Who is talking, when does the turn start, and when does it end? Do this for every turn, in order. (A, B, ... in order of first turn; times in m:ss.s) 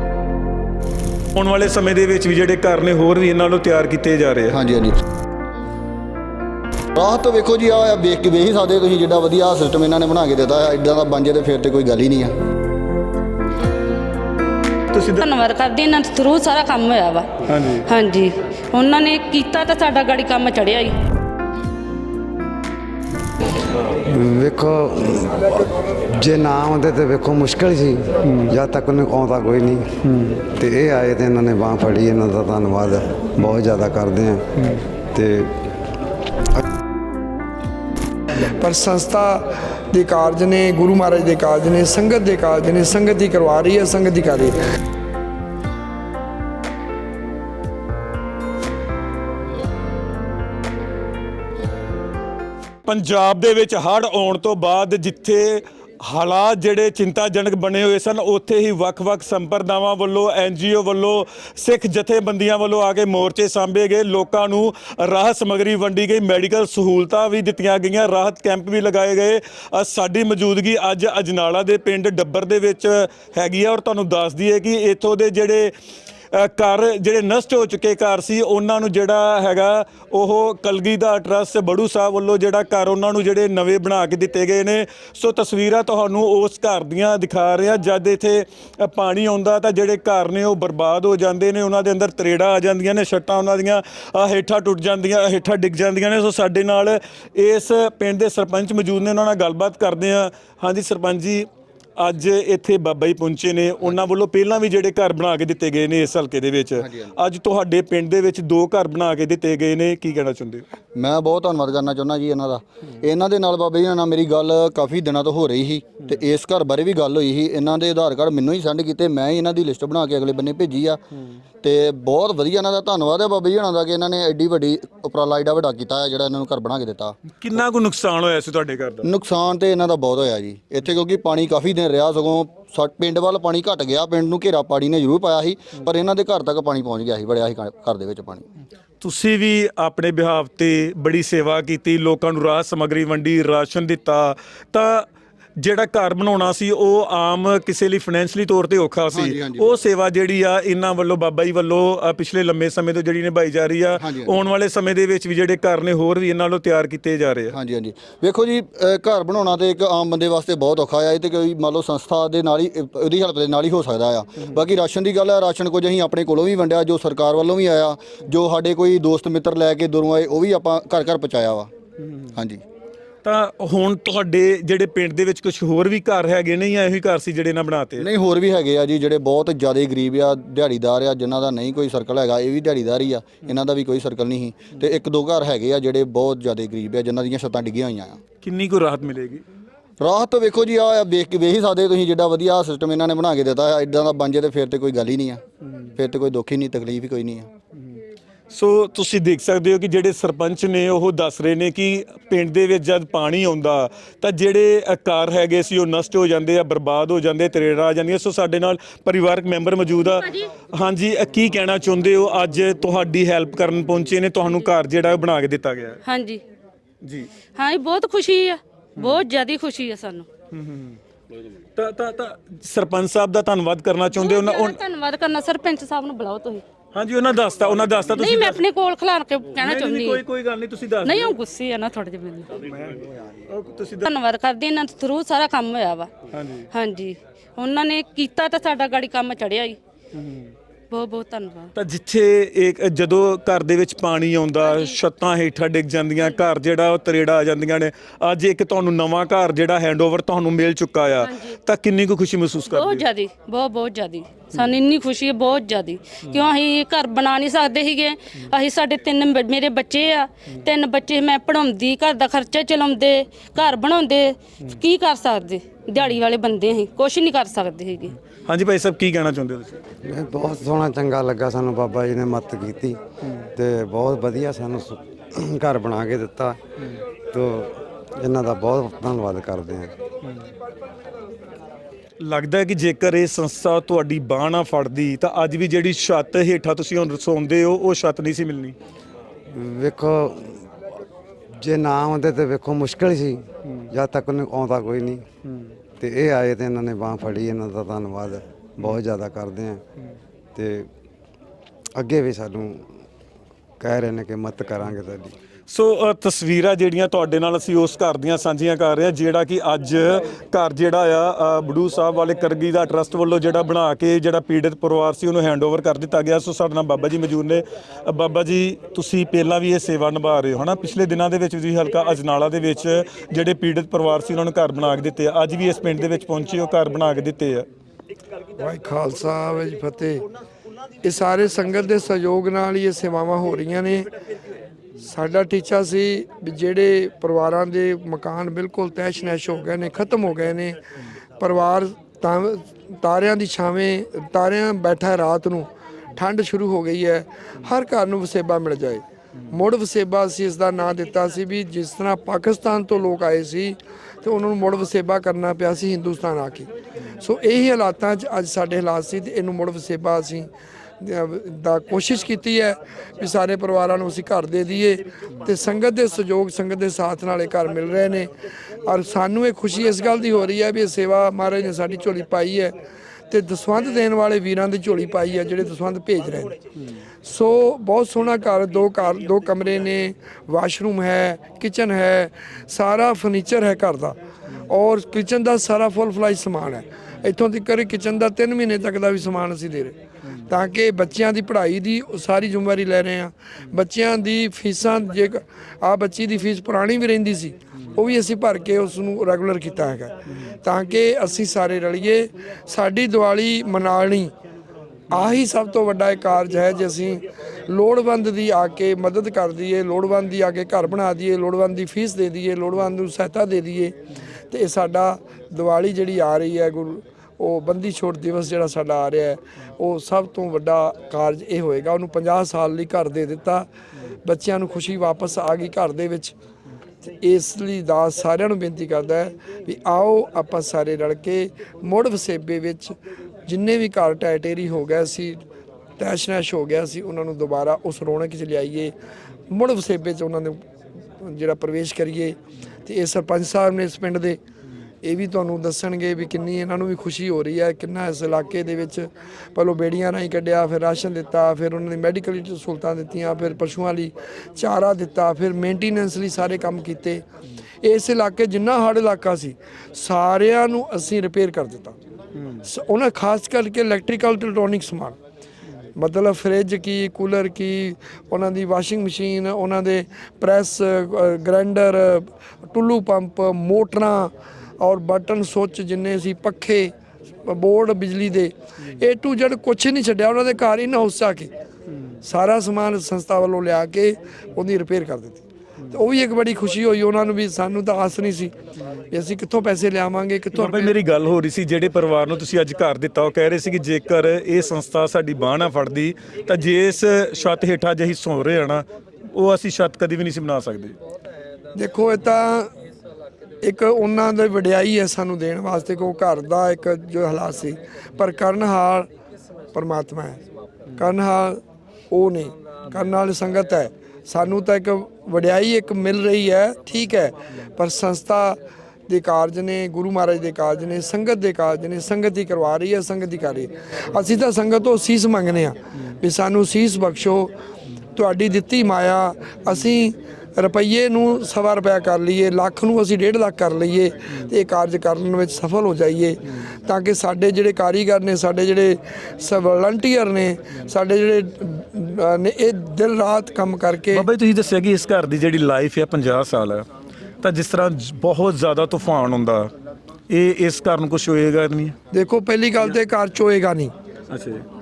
0:01.4-0:04.6 A
0:04.5-0:04.9 B
0:06.9-0:12.3 B
0:14.9-0:15.3 A
0:15.2-0:21.0 C
0:17.4-0:17.8 A
0:24.0-0:25.6 D
0:26.2-0:29.9 D
0:28.3-0:28.5 A
0:30.1-0:30.4 A
0:30.4-0:34.4 D
0:35.1-0:35.6 D
0:38.6-0:44.6 E
0:52.8-1:15.7 A
1:16.3-1:50.6 A
1:46.8-1:47.1 B
1:51.0-2:01.0 B
2:01.6-2:07.2 B
2:07.4-2:09.0 A
2:09.0-2:18.4 B
2:19.0-2:25.1 A
2:25.6-2:37.5 A
2:29.1-2:29.8 B
2:34.0-2:34.4 B
2:37.5-2:51.7 B
2:52.3-2:52.6 B
2:53.2-2:58.0 A
2:58.0-3:08.2 B
3:08.4-3:09.4 A
3:10.0-3:15.4 B
3:16.0-3:17.5 B
3:18.5-3:36.0 A
3:30.0-3:30.5 C
3:36.0-3:36.4 C
3:37.0-3:37.3 A
3:37.6-3:40.3 C
3:40.5-3:41.0 A
3:41.8-3:44.8 A
3:44.1-3:46.6 C
3:46.9-3:48.6 A
3:48.2-3:50.2 C
3:49.6-3:51.4 A
3:51.0-3:52.5 C
3:52.6-3:54.1 A
3:54.0-3:56.1 C
3:56.3-3:56.7 A
3:56.7-3:59.8 C
4:00.1-4:00.5 A
4:00.9-4:01.7 C
4:01.8-4:13.0 A
4:04.6-4:04.9 C
4:11.2-4:11.6 C
4:12.7-4:28.2 C
4:28.5-4:29.8 A
4:30.0-4:33.0 D
4:33.6-4:36.6 D
4:37.3-4:39.9 D
4:42.2-4:48.7 A
4:49.5-4:50.7 D
4:51.6-4:55.2 D
4:55.5-4:55.7 A
4:56.0-4:59.8 D
5:00.5-5:00.9 D
5:02.0-5:03.0 D
5:03.8-5:05.4 D
5:05.7-5:27.7 A
5:28.6-5:30.2 E
5:31.0-5:34.1 E
5:35.0-5:40.8 E
5:41.4-6:00.5 E
6:01.0-6:08.3 E
6:08.8-6:12.7 E
6:13.3-6:16.6 E
6:17.2-6:44.3 E
6:45.1-6:45.4 A
6:45.1-6:53.9 E
6:54.5-7:03.7 E
7:04.2-7:06.3 E
7:07.0-7:15.4 E
7:16.0-7:18.9 E
7:19.5-7:20.6 E
7:21.2-7:24.4 E
7:25.0-7:37.2 E
7:37.8-7:41.9 E
7:42.4-7:42.6 A
7:42.6-7:45.2 E
7:46.0-7:56.9 E
7:57.4-8:01.5 E
8:02.2-8:08.5 E
8:09.1-8:10.9 E
8:10.5-8:21.0 A
8:21.7-8:22.7 E
8:23.6-8:29.1 E
8:29.7-8:30.4 E
8:30.9-8:47.5 E
8:48.1-9:04.2 E
9:04.1-9:06.8 A
9:07.4-9:09.7 A
9:10.3-9:11.9 A
9:12.1-9:13.9 E
9:14.3-9:14.6 A